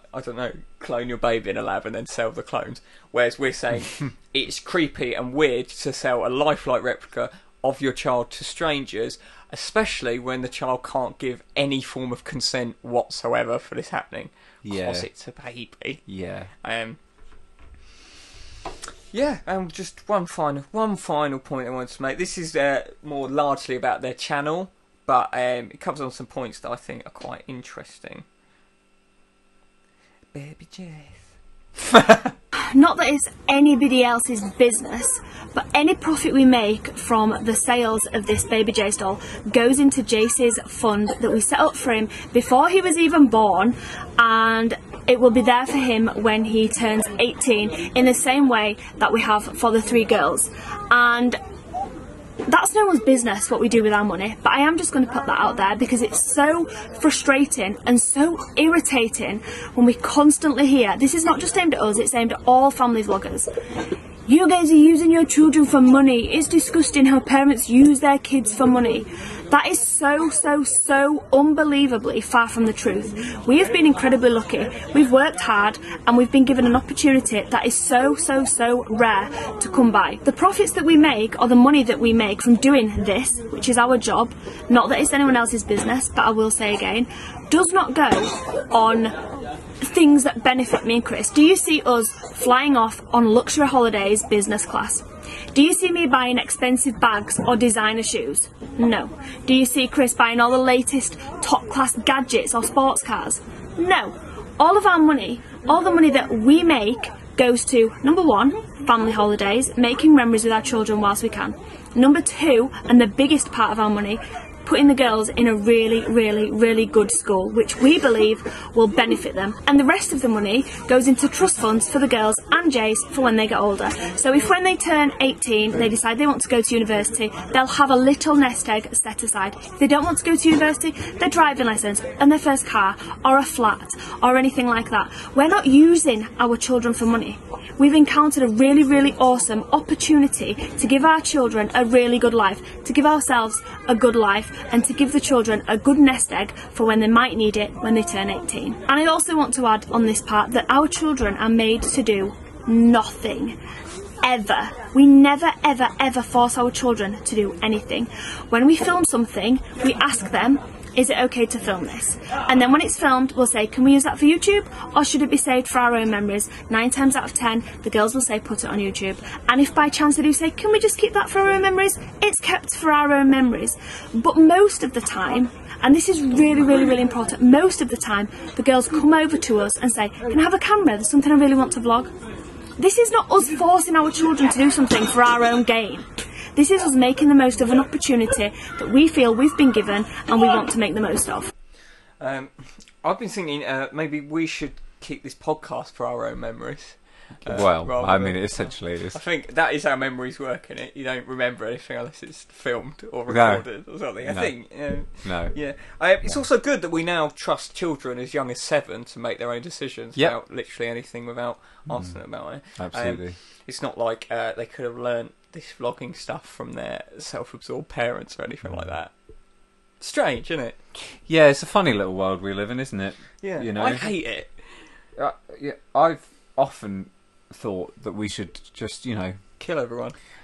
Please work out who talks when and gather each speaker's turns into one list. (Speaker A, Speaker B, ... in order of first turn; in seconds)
Speaker A: 0.1-16.0, 16.6-17.0, 19.1-28.2, 30.3-31.2, 192.2-192.5, 193.0-219.1, 220.0-220.8, 223.4-224.5, 229.6-230.2
Speaker B: 14.6-15.1, 16.1-16.5, 197.5-199.2, 203.3-203.7, 204.2-205.6, 212.8-213.4, 221.3-224.1, 225.2-229.4
Speaker C: 32.5-51.4, 52.5-63.5, 64.3-89.2, 89.8-153.6, 154.2-182.1, 182.8-191.5